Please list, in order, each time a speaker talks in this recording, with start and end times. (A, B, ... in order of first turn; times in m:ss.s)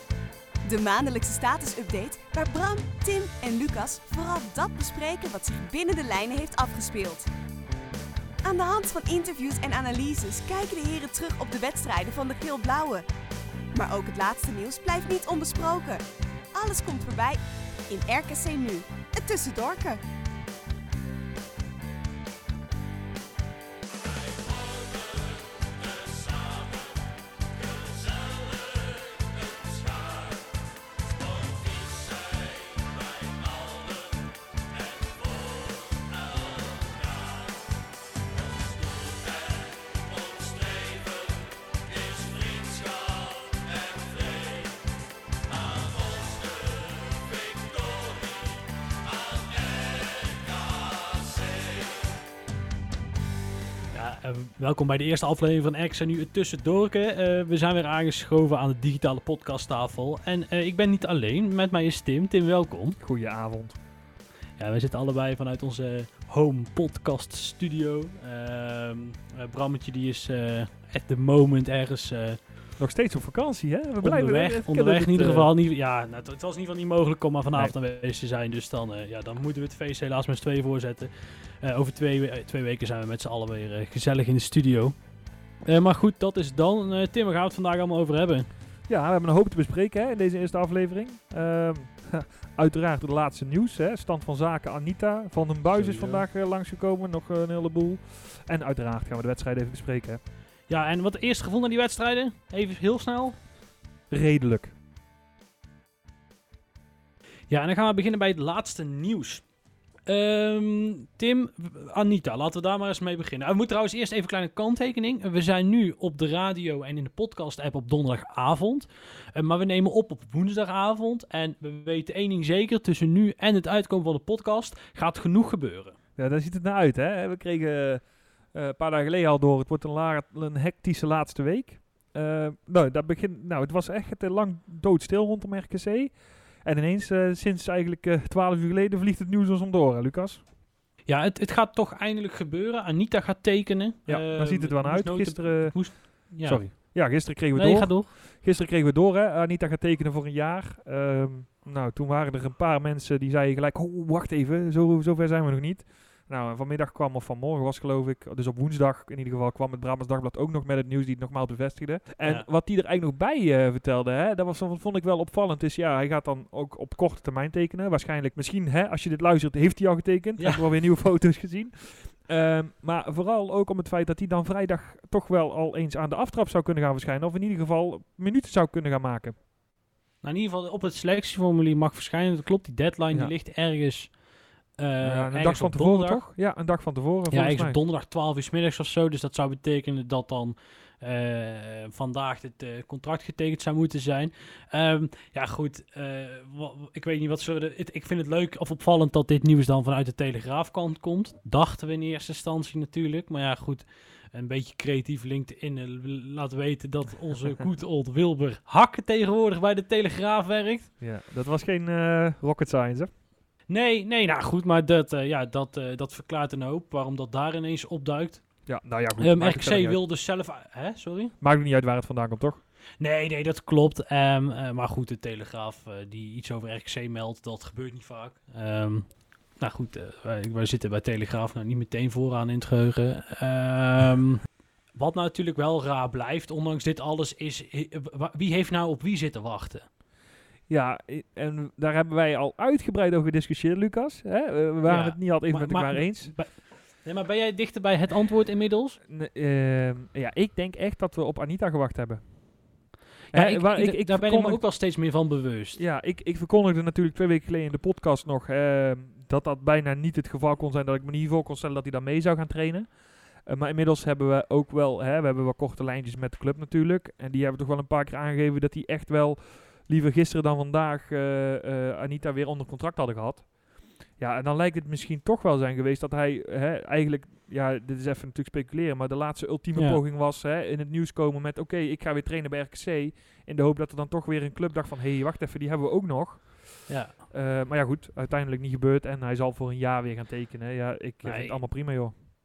0:00.6-0:07.3 A
0:08.4-0:13.0 A
0:13.7-0:20.0 A
0:53.9-1:03.0 B
1:03.0-1:03.8 C
1:04.6-1:12.5 B
1:12.8-1:15.5 C
1:14.0-1:25.0 B
1:25.6-1:28.5 B
1:28.9-1:40.2 C
1:35.7-1:36.3 B
1:40.7-1:43.4 B
1:44.1-1:44.7 C
1:47.5-1:49.5 B
1:50.1-2:06.0 B
2:06.2-2:20.4 C
2:21.1-2:28.1 B
2:24.1-2:59.4 C
2:50.4-2:50.6 B
3:00.2-3:04.2 B
3:04.7-3:06.3 B
3:05.0-3:07.8 C
3:07.3-3:30.9 B
3:31.0-3:33.1 C
3:33.7-3:41.3 B
3:38.7-3:40.0 C
3:41.4-3:42.6 C
3:43.0-3:54.4 B
3:54.9-3:59.9 B
4:00.7-4:06.4 C
4:04.9-4:09.0 B
4:09.1-4:12.7 C
4:13.3-4:15.8 B
4:13.3-4:14.6 C
4:15.8-4:52.1 C
4:39.8-4:40.0 B
4:46.9-4:47.2 B
4:51.2-4:51.6 B